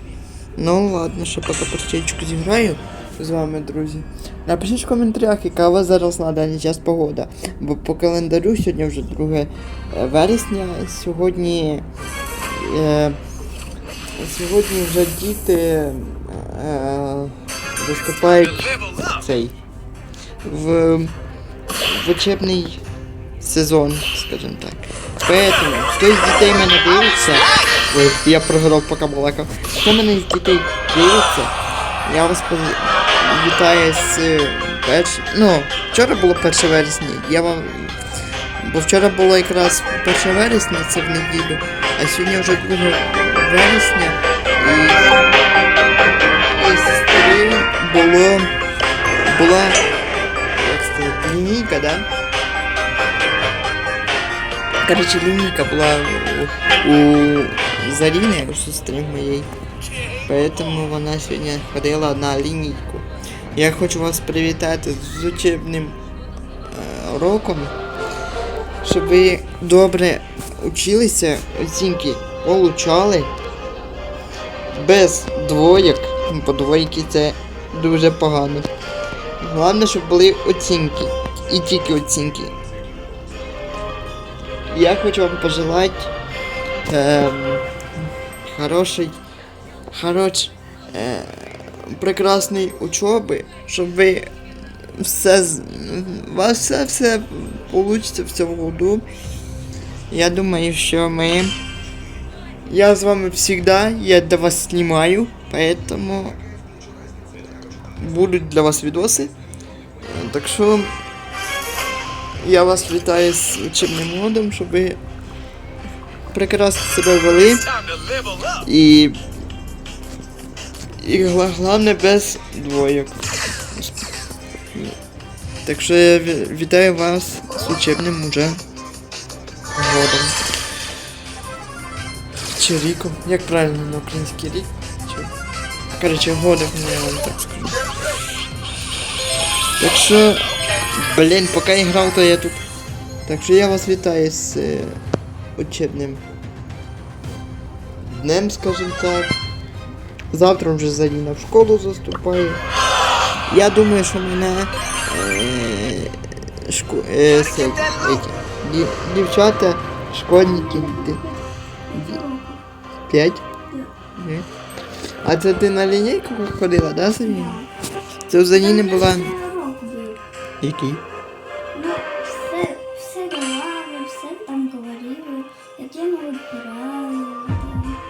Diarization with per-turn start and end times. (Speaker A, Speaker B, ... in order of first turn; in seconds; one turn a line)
Speaker A: 0.6-11.8
Speaker A: 12.5-13.2
Speaker A: 14.2-19.5
Speaker A: 20.4-21.1
Speaker A: 21.8-22.8
Speaker A: 23.4-31.5
Speaker A: 32.0-38.0
Speaker A: 38.6-45.2
Speaker A: 46.5-48.5
Speaker A: 49.2-49.8
Speaker A: 50.5-52.1
Speaker A: 54.8-59.5
Speaker A: 60.2-66.0
Speaker A: 66.7-67.7
Speaker A: 68.8-73.3
Speaker A: 74.7-78.7
Speaker A: 79.4-82.5
Speaker A: 84.7-86.1
Speaker A: 86.9-87.7
Speaker A: 88.5-89.1
Speaker A: 89.9-94.3
Speaker A: 94.9-99.0
Speaker A: 100.1-101.6
Speaker A: 102.7-106.4
Speaker A: 108.0-109.3
Speaker A: 110.0-110.9
Speaker A: 112.4-115.0
Speaker A: 116.3-117.7
Speaker A: 118.6-119.2
Speaker A: 121.0-123.2
Speaker A: 123.7-124.1
Speaker A: 125.6-128.6
Speaker A: 129.7-130.4
Speaker A: 132.5-135.3
Speaker A: 136.0-137.8
Speaker A: 139.8-142.6
Speaker A: 143.2-145.0
Speaker A: 145.6-146.2
Speaker A: 148.0-149.3
Speaker A: 150.3-152.6
Speaker A: 153.5-156.1
Speaker A: 156.7-161.2
Speaker B: 160.3-162.6
Speaker A: 161.9-162.2
Speaker A: 163.1-163.4
Speaker A: 164.2-164.4
Speaker A: 165.2-167.6
Speaker B: 167.0-167.7
Speaker A: 168.3-169.3
Speaker B: 168.5-170.2
Speaker A: 170.6-171.0
Speaker B: 171.7-178.0